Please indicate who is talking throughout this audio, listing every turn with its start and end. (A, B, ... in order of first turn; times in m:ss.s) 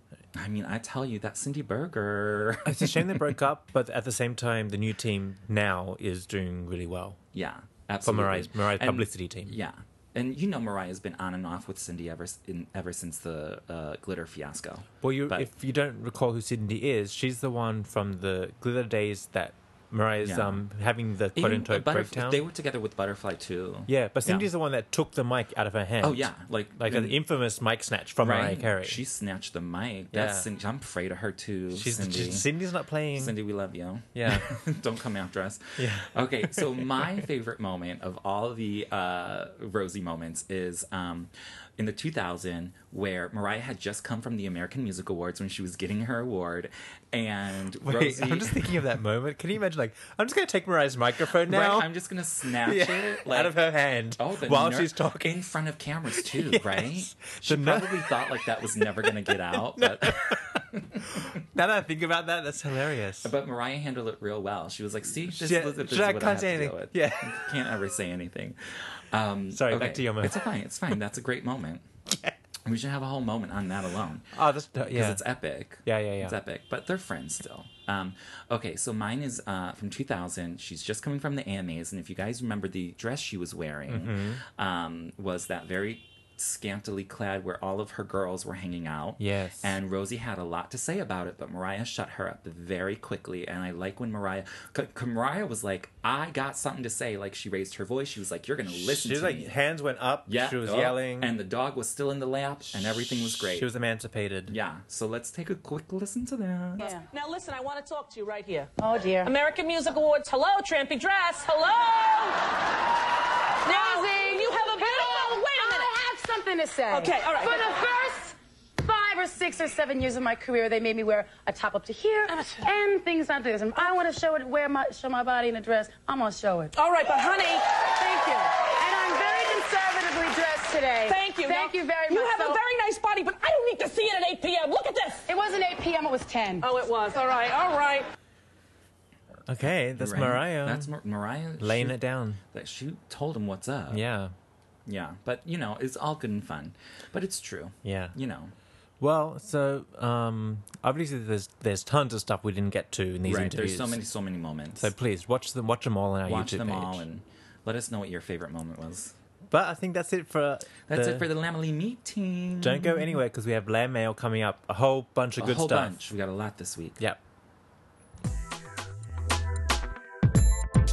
0:00.4-0:03.0 A
0:02.6-0:07.2 B
0:07.3-0:15.5 A
0:08.0-0:09.6 B
0:15.0-0:22.4 B
0:20.2-0:20.6 A
0:21.3-0:24.5 A
0:23.9-0:29.0 B
0:26.0-0:27.2 A
0:28.2-0:32.5 A
0:30.1-0:30.5 B
0:31.7-0:33.4 B
0:33.2-0:48.8 A
0:34.1-0:34.5 B
0:35.8-0:37.2 B
0:47.8-0:51.9 B
0:51.5-0:53.6 A
0:52.5-0:55.4 B
0:54.2-1:01.4 A
0:56.2-1:03.3 B
1:03.2-1:11.9 A
1:05.2-1:07.4 B
1:09.5-1:10.4 B
1:12.7-1:39.6 A
1:14.3-1:15.2 B
1:15.8-1:16.4 B
1:23.9-1:24.4 B
1:29.2-1:29.8 B
1:38.7-1:41.3 B
1:40.3-1:43.7 A
1:43.1-1:44.6 B
1:44.5-1:46.8 A
1:46.8-1:47.0 C
1:46.8-1:48.7 D
1:48.8-1:49.3 C
1:49.2-1:52.5 D
1:53.6-1:56.0 D
1:53.7-2:06.7 C
1:56.9-1:57.7 D
2:06.7-2:07.8 D
2:08.0-2:12.6 C
2:11.1-2:15.3 D
2:15.3-2:16.7 C
2:16.6-2:18.1 D
2:19.5-2:20.9 B
2:20.0-2:22.0 A
2:21.6-2:22.4 B
2:22.5-2:24.0 A
2:23.9-2:24.3 B
2:24.9-2:28.5 A
2:27.8-2:28.2 B
2:29.0-2:34.0 B
2:33.2-2:34.9 A
2:34.8-2:37.1 B
2:36.3-2:39.2 A
2:39.5-2:41.3 B
2:40.9-2:43.2 A
2:42.6-2:46.0 B
2:45.4-2:47.1 A